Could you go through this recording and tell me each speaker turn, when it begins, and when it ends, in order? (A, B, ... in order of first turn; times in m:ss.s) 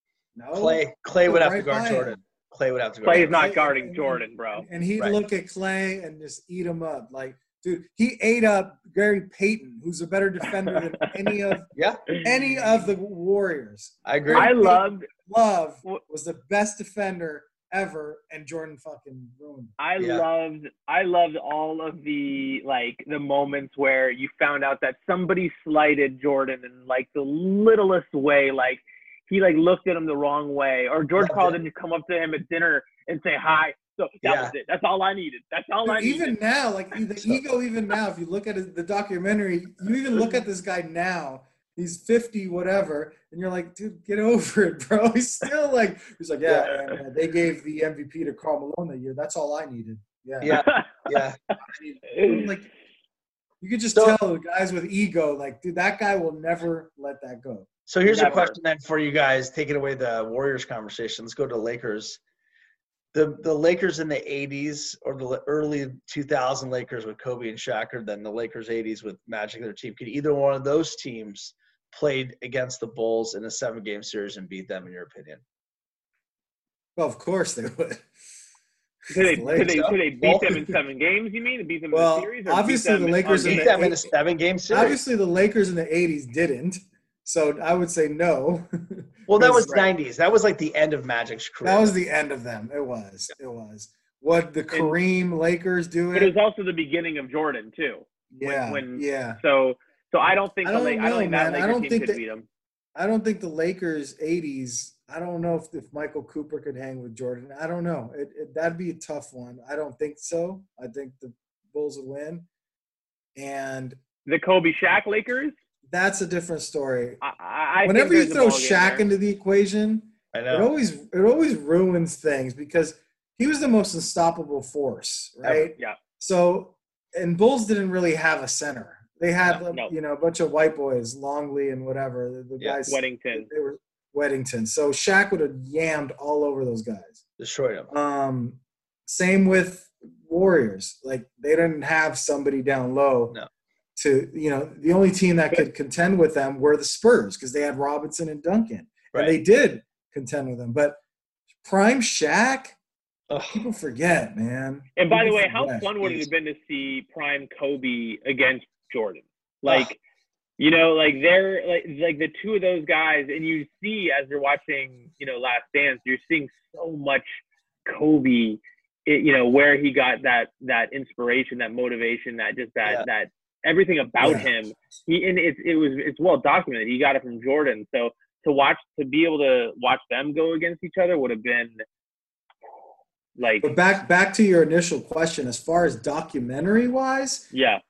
0:00.4-0:02.2 A
0:00.6-0:03.5 B
0:03.0-0:04.7 C
0:03.1-0:11.7 A
0:11.8-0:12.1 B
0:12.2-0:19.8 A
0:14.0-0:14.6 B
0:14.3-0:15.1 C
0:19.8-0:36.4 C
0:20.0-0:20.2 B
0:31.2-0:31.6 B
0:34.2-0:34.5 B
0:35.8-0:50.6 A
0:50.4-0:51.4 B
0:50.5-0:51.1 C
0:51.7-0:52.7 A
0:52.1-0:52.5 C
0:53.6-0:57.7 A
0:57.9-1:02.2 B
0:58.1-0:58.6 C
1:03.1-1:15.4 B
1:17.0-1:18.1 A
1:19.1-1:23.8 C
1:19.2-1:19.8 A
1:19.6-1:20.6 B
1:21.9-1:24.1 A
1:23.4-1:25.0 B
1:24.7-1:29.9 A
1:29.3-1:31.9 B
1:31.6-1:36.3 A
1:34.7-1:35.0 C
1:36.1-1:42.5 C
1:38.3-1:39.4 A
1:40.6-1:42.2 A
1:43.0-1:52.5 A
1:53.4-1:54.0 A
1:54.3-1:55.6 C
1:55.9-1:57.2 A
1:57.2-1:59.0 C
1:57.8-2:17.2 A
2:00.3-2:00.7 B
2:12.9-2:13.5 C
2:17.4-2:17.9 B
2:17.9-2:23.4 A
2:24.0-2:31.0 A
2:31.6-2:32.8 A
2:33.3-2:33.7 B
2:33.5-2:36.3 A
2:35.0-2:40.0 C
2:40.6-2:47.3 C
2:47.9-3:01.8 C
2:54.2-2:54.5 A
3:03.4-3:03.7 C
3:03.6-3:07.5 A
3:07.5-3:07.8 C